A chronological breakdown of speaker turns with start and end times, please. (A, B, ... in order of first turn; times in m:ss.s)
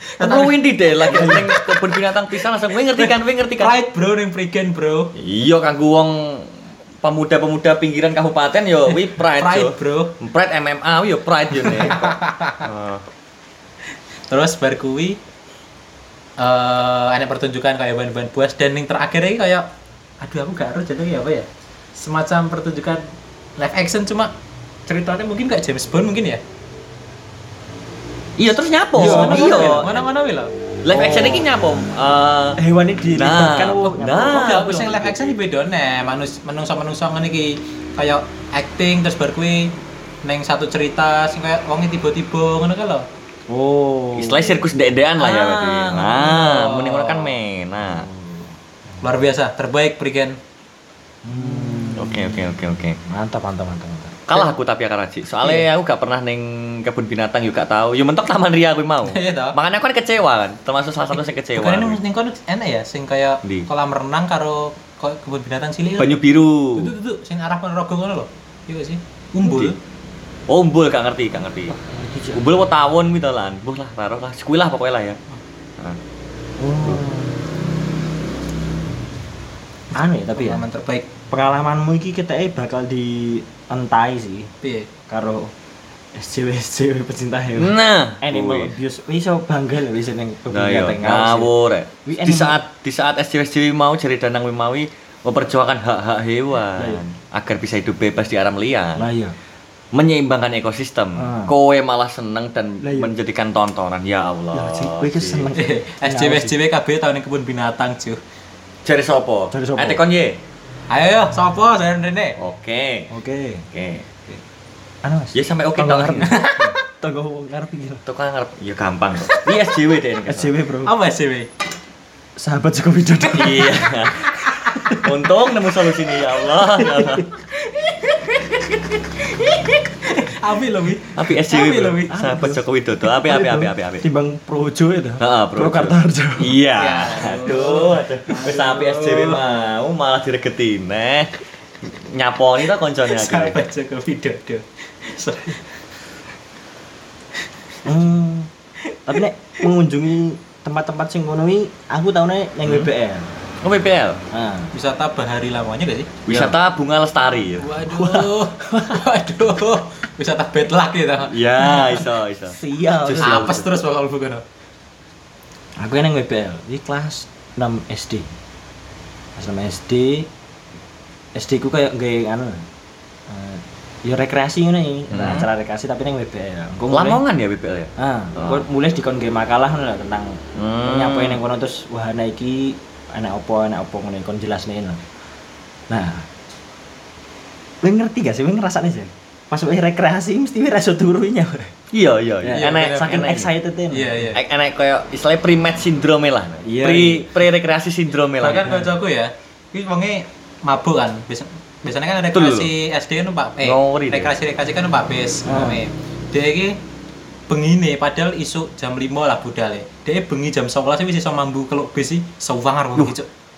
0:00.2-0:02.0 A
0:00.2-0:03.7 B
0:02.9-0:05.1 A
0:05.1-0:13.0 B
0:08.9-0:10.1 A
0:11.6-0:12.7 A
0:14.3-0:15.2 A
0:16.4-0:19.7 A
0:20.2-0:23.0 A
0:23.6-0:24.3 A
0:24.9-0:26.4 A
0:28.4-0:30.0 B
0:29.0-0:29.9 C
0:29.0-0:30.5 A
0:30.8-0:32.6 B
0:30.9-0:31.4 C
0:32.6-0:34.8 C
0:33.1-0:35.4 B
0:34.1-0:43.0 A
0:43.5-0:44.7 C
0:44.1-0:48.1 B
0:45.2-0:46.1 C
0:46.0-0:47.4 A
0:47.8-0:48.5 C
0:49.0-0:50.4 A
0:51.2-0:52.5 C
0:51.9-0:53.0 B
0:53.1-0:54.2 C
0:54.3-1:02.0 B
0:59.0-0:59.6 A
1:01.5-1:06.2 A
1:06.0-1:06.9 B
1:06.7-1:09.8 A
1:09.4-1:09.7 B
1:10.5-1:11.8 B
1:11.7-1:12.4 C
1:12.3-1:15.2 B
1:16.6-1:17.4 C
1:19.9-1:20.6 C
1:20.3-1:21.1 A
1:21.3-1:24.5 C
1:24.6-1:24.9 A
1:25.1-1:25.5 C
1:26.1-1:31.5 C
1:27.6-1:28.7 B
1:30.5-1:39.1 B
1:32.0-1:32.6 C
1:36.8-1:37.0 C
1:39.0-1:39.3 C
1:39.9-1:45.5 B
1:41.2-1:41.5 C
1:42.8-1:43.1 C
1:44.5-1:46.5 C
1:45.5-1:48.2 A
1:48.8-1:50.4 B
1:49.5-1:50.0 C
1:50.9-1:52.4 A
1:52.4-1:53.1 B
1:53.1-1:53.7 C
1:53.7-1:54.4 B
1:55.0-1:58.0 C
1:55.3-1:56.4 B
1:56.2-1:56.7 A
1:58.0-2:00.5 B
1:59.3-1:59.5 A
2:00.3-2:00.9 C
2:00.8-2:01.5 A
2:02.4-2:05.0 C
2:03.3-2:04.3 B
2:04.9-2:07.3 B
2:06.8-2:07.3 C
2:07.5-2:12.3 A
2:11.1-2:14.0 B
2:12.1-2:16.6 C
2:15.2-2:23.6 B
2:16.7-2:19.5 A
2:23.1-2:25.6 A
2:27.8-2:28.5 C
2:29.0-2:33.3 C
2:32.6-2:32.9 B
2:33.6-2:34.2 B
2:34.3-2:34.7 C
2:34.7-2:36.1 A
2:36.2-2:37.7 B
2:36.3-2:36.5 C
2:37.6-2:42.0 A
2:37.9-2:39.0 C
2:41.2-2:43.7 B
2:41.6-2:43.5 C
2:43.2-2:44.4 A
2:45.8-2:48.3 C
2:49.4-2:50.3 C
2:51.3-2:52.6 C
2:53.3-2:57.2 C
2:55.1-2:55.5 B
2:56.9-2:58.6 B
2:58.0-3:05.0 C
3:00.5-3:01.4 B
3:05.9-3:06.3 C
3:07.8-3:11.7 C
3:11.9-3:13.5 B
3:12.4-3:14.3 C
3:12.5-3:13.2 A
3:13.9-3:14.4 A
3:14.3-3:18.8 B
3:16.6-3:17.3 C
3:18.4-3:26.8 A
3:18.6-3:18.9 C
3:22.3-3:22.7 B
3:23.6-3:24.3 B
3:25.4-3:25.8 C
3:27.5-3:33.3 A